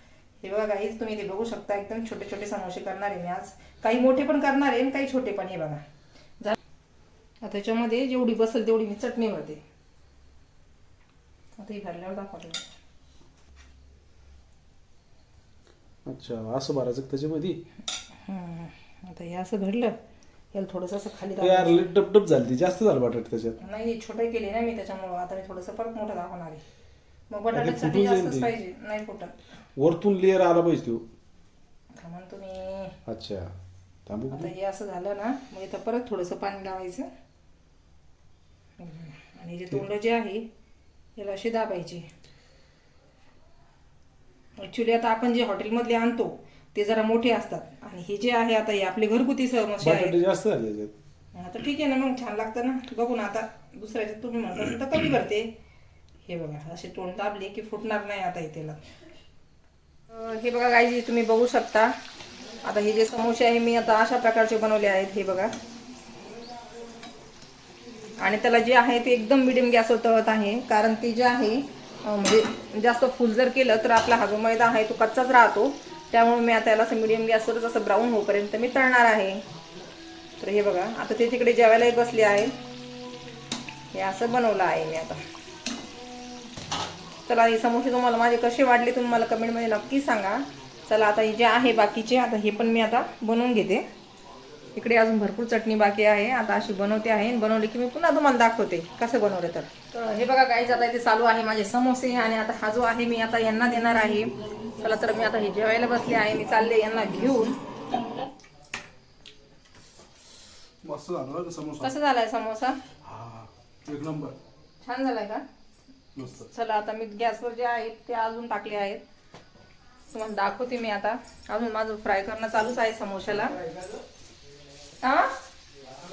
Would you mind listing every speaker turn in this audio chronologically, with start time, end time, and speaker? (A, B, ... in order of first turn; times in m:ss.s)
0:00.4-0:05.8 A
0:07.4-0:09.6 A
0:11.6-0:12.6 A
0:16.0-0:17.6 B
0:18.2-0:20.0 A
0:20.5-0:21.8 A
0:21.4-0:23.6 B
0:23.6-0:26.6 A
0:27.3-0:29.4 A
0:27.5-0:28.5 B
0:29.8-0:31.0 B
0:31.9-0:33.0 A
0:33.1-0:33.5 B
0:34.1-0:34.5 B
0:34.3-0:37.1 A
0:38.8-0:40.4 A
0:41.2-0:42.1 A
0:44.6-0:50.2 A
0:49.8-0:50.9 B
0:51.3-0:55.5 A
0:56.2-0:58.8 A
1:00.1-1:01.9 A
1:02.6-1:05.5 A
1:08.2-1:19.4 A
1:20.4-1:22.5 A
1:23.9-1:25.2 A
1:27.3-1:33.8 A
1:34.7-1:48.1 A
1:50.8-1:51.9 B
1:51.8-1:52.8 A
1:53.0-1:54.4 B
1:54.8-1:55.4 A
1:56.1-1:56.5 B
1:56.4-1:59.0 A
2:00.1-2:03.6 A
2:03.3-2:04.0 B
2:05.0-2:05.3 A